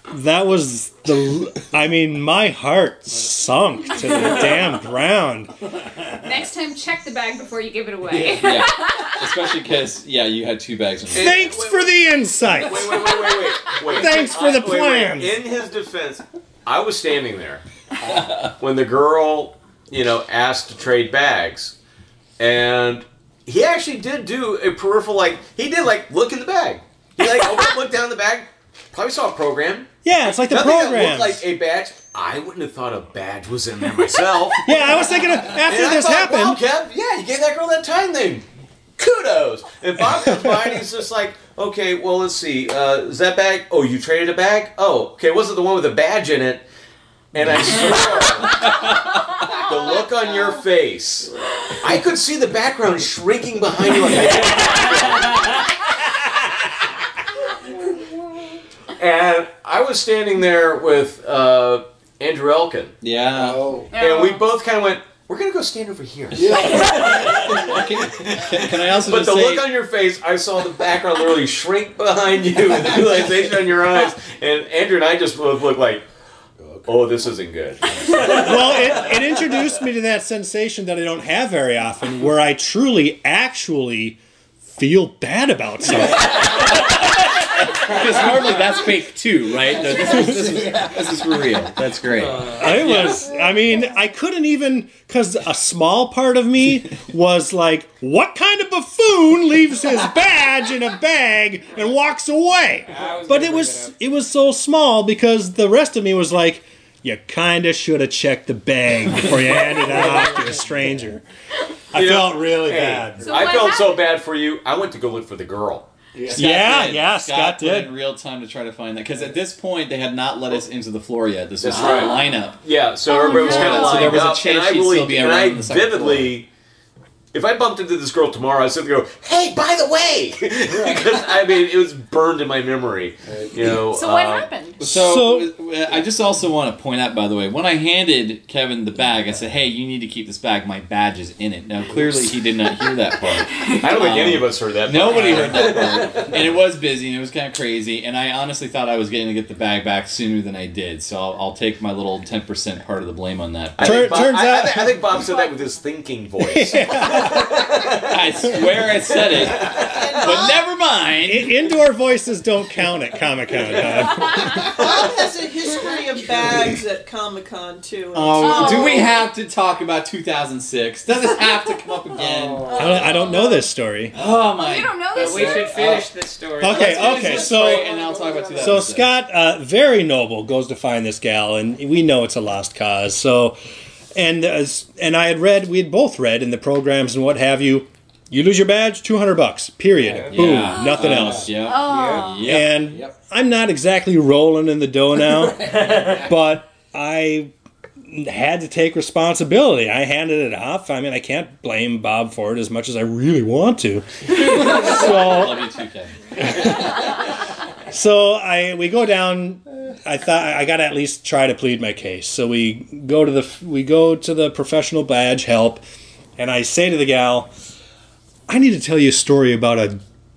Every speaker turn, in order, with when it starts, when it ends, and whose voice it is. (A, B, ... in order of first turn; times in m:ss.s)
0:00.1-0:05.5 A
0:06.2-0:09.2 B
0:08.3-0:11.4 C
0:11.1-0:15.3 A
0:11.1-0:17.6 D
0:18.0-0:18.3 E
0:18.4-0:21.7 D
0:22.4-0:29.9 D
0:30.0-0:31.4 A
0:30.5-0:38.4 D
0:34.6-0:36.6 A
0:39.0-0:46.6 D
0:40.1-0:40.6 A
0:47.3-0:48.6 D
0:49.6-0:55.6 D
0:59.0-1:03.0 D
1:03.0-1:03.6 C
1:03.3-1:03.9 E
1:03.9-1:04.4 B
1:04.0-1:07.7 D
1:06.3-1:07.5 E
1:06.5-1:09.6 C
1:09.0-1:16.0 D
1:16.6-1:16.9 E
1:16.8-1:19.1 D
1:18.1-1:24.2 A
1:24.7-1:26.7 A
1:26.2-1:33.1 C
1:29.7-1:31.2 E
1:32.4-1:33.0 F
1:32.5-1:32.9 D
1:32.6-1:51.2 A
1:42.8-1:43.9 F
1:49.6-1:50.4 E
1:51.9-1:53.4 A
1:51.9-1:55.9 D
1:53.2-1:54.0 B
1:56.1-1:56.7 E
1:56.3-2:02.6 C
1:56.3-1:57.9 A
2:01.6-2:06.5 D
2:01.8-2:02.2 B
2:03.0-2:04.2 B
2:03.1-2:06.3 C
2:07.3-2:14.5 D
2:10.6-2:11.2 E
2:13.2-2:13.8 E
2:13.9-2:14.8 B
2:14.8-2:34.1 C
2:14.8-2:15.5 A
2:21.9-2:22.3 D
2:23.6-2:26.5 D
2:33.8-2:38.6 D
2:33.8-2:35.0 A
2:35.2-2:35.6 G
2:36.4-2:37.5 A
2:38.1-2:41.5 C
2:38.4-2:38.7 A
2:39.3-2:40.2 D
2:39.9-2:40.6 G
2:41.2-2:44.6 A
2:44.4-2:49.2 G
2:48.1-2:53.2 C
2:48.4-2:49.1 B
2:52.1-2:53.2 E
2:52.7-2:54.1 A
2:52.8-2:53.5 B
2:54.1-2:56.0 C
2:54.6-2:55.7 B
2:55.1-2:57.5 F
2:56.6-2:57.9 A
2:56.7-2:59.1 C
2:56.9-2:58.9 E
2:58.5-3:03.6 A
3:04.1-3:11.7 A
3:10.3-3:12.7 C
3:10.7-3:11.0 B
3:11.0-3:12.0 E
3:11.6-3:12.5 B
3:12.4-3:17.5 A
3:15.3-3:16.1 E
3:18.1-3:25.7 A
3:24.3-3:26.9 C
3:26.4-3:27.0 A
3:27.9-3:35.8 A
3:36.4-3:37.5 A
3:38.5-3:40.0 A